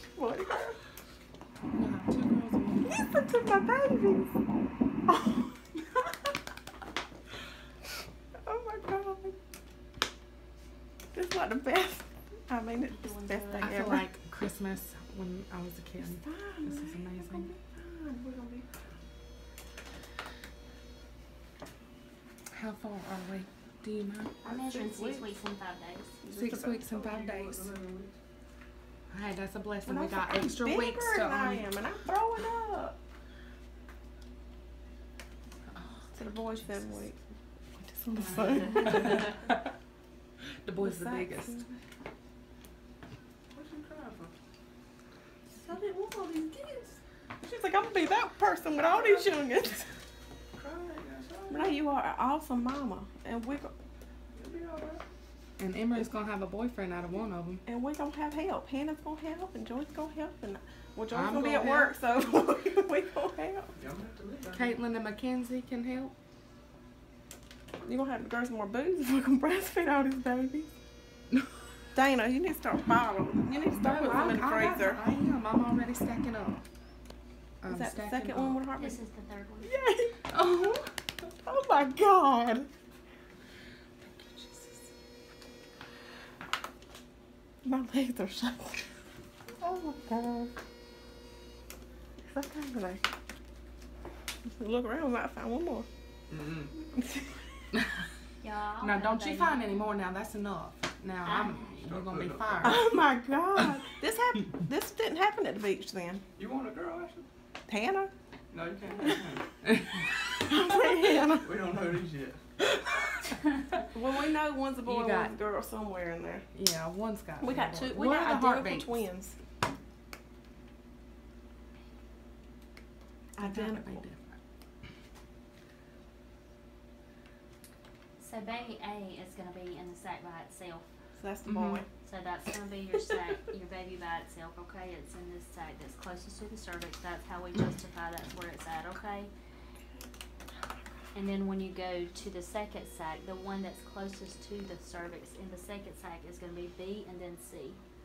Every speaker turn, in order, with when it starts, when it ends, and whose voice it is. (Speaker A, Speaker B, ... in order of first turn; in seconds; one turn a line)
Speaker A: 0.2-0.8
Speaker B: 1.7-3.0
Speaker A: 2.9-4.3
Speaker A: 5.1-5.4
Speaker A: 8.4-9.3
Speaker A: 11.1-14.1
Speaker C: 12.9-14.0
Speaker B: 13.6-17.5
Speaker A: 16.2-18.7
Speaker B: 22.5-24.4
Speaker A: 24.4-25.3
Speaker C: 24.4-26.2
Speaker A: 26.2-26.8
Speaker B: 26.3-27.7
Speaker D: 26.8-28.1
Speaker B: 29.1-31.7
Speaker A: 29.9-33.0
Speaker B: 35.7-36.9
Speaker A: 36.1-37.2
Speaker A: 37.8-39.3
Speaker C: 38.2-39.1
Speaker B: 38.9-39.5
Speaker B: 40.6-41.6
Speaker A: 40.8-41.7
Speaker D: 43.5-44.3
Speaker A: 45.5-49.8
Speaker D: 48.8-49.5
Speaker D: 50.5-51.8
Speaker A: 51.5-53.7
Speaker D: 54.3-55.0
Speaker B: 55.6-57.6
Speaker A: 57.6-63.7
Speaker B: 61.1-62.0
Speaker D: 63.8-64.8
Speaker B: 64.5-66.1
Speaker A: 67.8-70.7
Speaker A: 71.9-75.0
Speaker B: 73.7-76.6
Speaker B: 77.6-78.6
Speaker A: 77.7-79.0
Speaker C: 78.7-79.7
Speaker A: 79.6-80.2
Speaker B: 80.3-80.9
Speaker A: 81.4-82.7
Speaker B: 84.0-84.8
Speaker A: 87.6-88.8
Speaker A: 89.6-90.5
Speaker A: 92.3-93.1
Speaker A: 94.6-95.8
Speaker D: 96.3-96.7
Speaker A: 96.9-97.3
Speaker C: 98.4-99.8
Speaker B: 98.8-102.9
Speaker C: 101.2-101.8
Speaker D: 101.8-102.8
Speaker A: 102.6-106.2
Speaker D: 106.4-107.2
Speaker A: 107.7-108.1
Speaker D: 108.5-109.5
Speaker B: 109.6-110.1
Speaker A: 110.4-111.4
Speaker D: 111.4-112.4
Speaker A: 113.9-116.5
Speaker B: 114.8-115.3
Speaker B: 116.5-119.0
Speaker A: 117.4-119.3
Speaker A: 123.4-124.0
Speaker B: 123.4-124.3
Speaker C: 128.2-130.9
Speaker A: 131.2-131.9
Speaker B: 131.4-131.8
Speaker C: 132.0-139.3
Speaker C: 141.1-147.8